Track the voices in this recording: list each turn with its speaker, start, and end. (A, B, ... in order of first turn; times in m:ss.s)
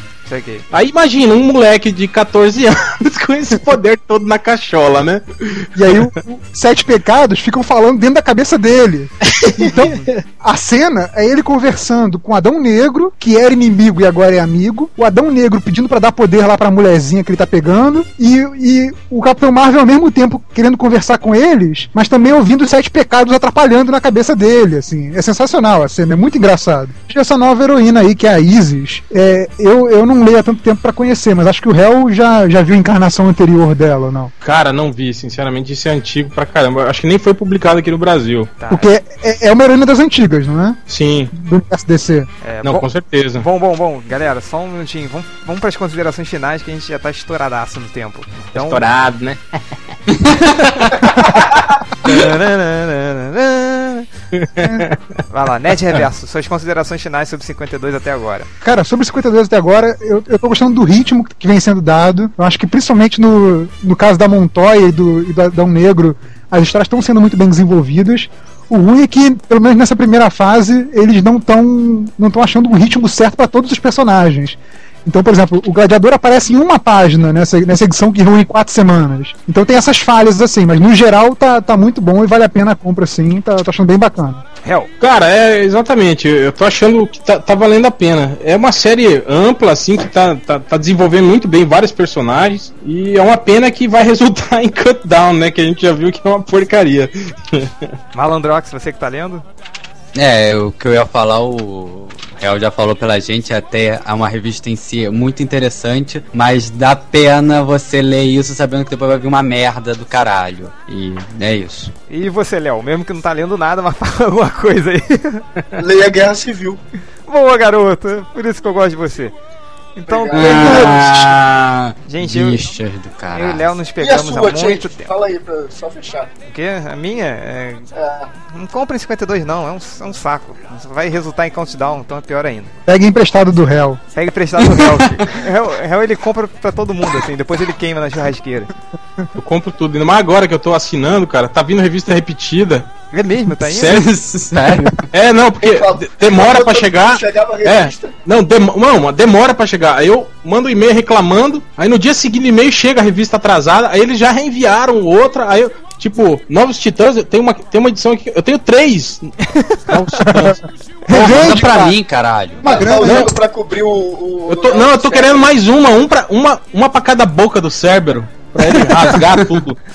0:00.3-0:00.6 A
0:00.7-0:06.1 B
0:05.8-0:34.3 C
0:09.2-0:10.2 B
0:34.4-0:38.5 B
0:38.6-0:38.9 A
0:38.7-0:40.8 C
0:40.9-0:41.3 B
0:41.3-0:42.3 C
0:42.4-0:48.8 A
0:42.6-0:43.4 B
0:48.5-0:49.4 B
0:50.4-0:50.9 B
0:52.0-0:54.1 A
0:54.3-0:55.0 B
0:55.3-0:58.5 A
0:58.6-1:24.4 C
1:24.6-1:24.9 A
1:25.0-1:37.7 B
1:38.1-1:39.4 A
1:40.1-1:51.9 D
1:52.1-1:55.5 A
1:55.7-1:56.8 E
1:57.3-1:59.3 A
2:00.0-2:01.1 A
2:00.0-2:01.4 E
2:00.3-2:03.7 D
2:02.1-2:02.6 A
2:03.3-2:05.1 A
2:04.0-2:06.3 E
2:06.5-2:07.9 A
2:07.9-2:08.3 E
2:08.4-2:12.7 A
2:12.9-2:14.0 C
2:14.1-2:18.7 A
2:19.4-2:22.9 B
2:23.1-2:24.0 A
2:23.6-2:24.1 B
2:23.7-2:25.0 D
2:25.1-2:39.3 B
2:25.6-2:28.1 E
2:39.5-2:39.9 A
2:39.9-2:40.6 B
2:40.2-2:42.0 C
2:41.1-2:43.0 D
2:42.6-2:43.3 C
2:42.6-2:45.5 E
2:43.0-2:43.3 B
2:44.5-2:49.8 B